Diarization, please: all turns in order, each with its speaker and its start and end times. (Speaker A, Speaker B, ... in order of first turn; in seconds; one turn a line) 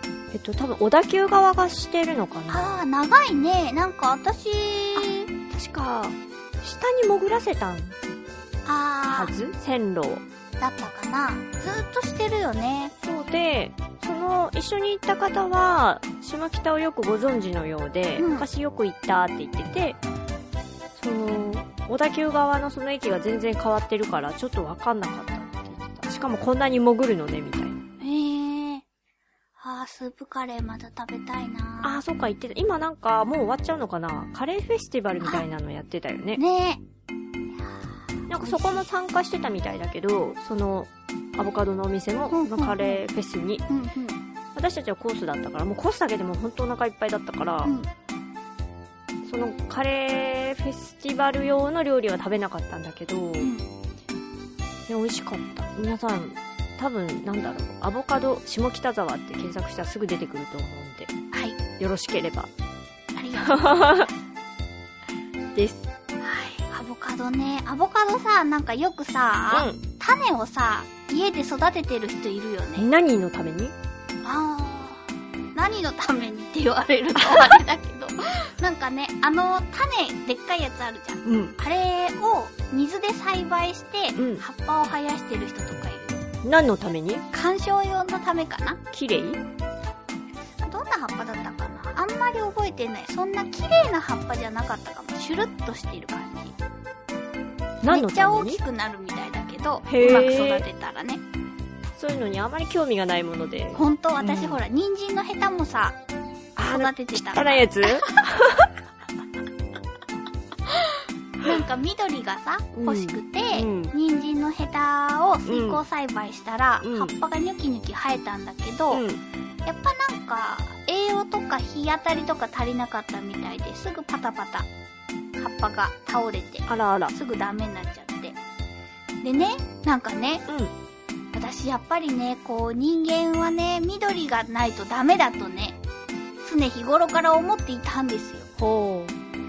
Speaker A: 0.3-2.8
Speaker B: 2.5-5.3
Speaker A: 5.0-8.0
Speaker B: 8.6-9.3
Speaker A: 9.1-10.2
Speaker B: 10.6-12.9
Speaker A: 13.0-20.0
Speaker B: 18.2-18.5
Speaker A: 21.0-27.8
Speaker B: 28.0-28.8
Speaker B: 29.6-32.0
Speaker A: 31.8-36.4
Speaker B: 36.4-36.8
Speaker B: 37.6-38.8
Speaker A: 38.3-43.6
Speaker B: 42.3-43.0
Speaker B: 43.7-44.2
Speaker A: 44.5-47.7
Speaker B: 47.6-47.9
Speaker A: 49.2-53.5
Speaker B: 53.4-53.6
Speaker A: 54.9-61.1
Speaker B: 61.3-61.6
Speaker A: 61.8-62.5
Speaker B: 63.1-64.1
Speaker A: 63.6-64.0
Speaker A: 65.5-65.8
Speaker B: 66.2-72.9
Speaker A: 69.5-69.8
Speaker A: 72.8-73.7
Speaker B: 74.2-86.2
Speaker A: 81.2-81.5
Speaker A: 84.2-84.4
Speaker A: 86.4-87.2
Speaker B: 87.3-88.8
Speaker A: 88.9-89.4
Speaker B: 90.6-96.5
Speaker A: 97.8-98.6
Speaker B: 97.8-101.2
Speaker A: 99.9-100.7
Speaker A: 102.0-104.6
Speaker B: 103.7-106.0
Speaker A: 106.5-108.7
Speaker B: 106.7-108.2
Speaker B: 110.7-119.0
Speaker A: 112.7-113.9
Speaker A: 115.5-115.8
Speaker A: 116.8-117.1
Speaker A: 118.9-119.2
Speaker B: 119.6-124.7
Speaker B: 125.4-128.4
Speaker A: 126.7-127.1
Speaker B: 129.2-130.4
Speaker B: 131.3-135.8
Speaker B: 136.4-138.5
Speaker A: 138.6-139.1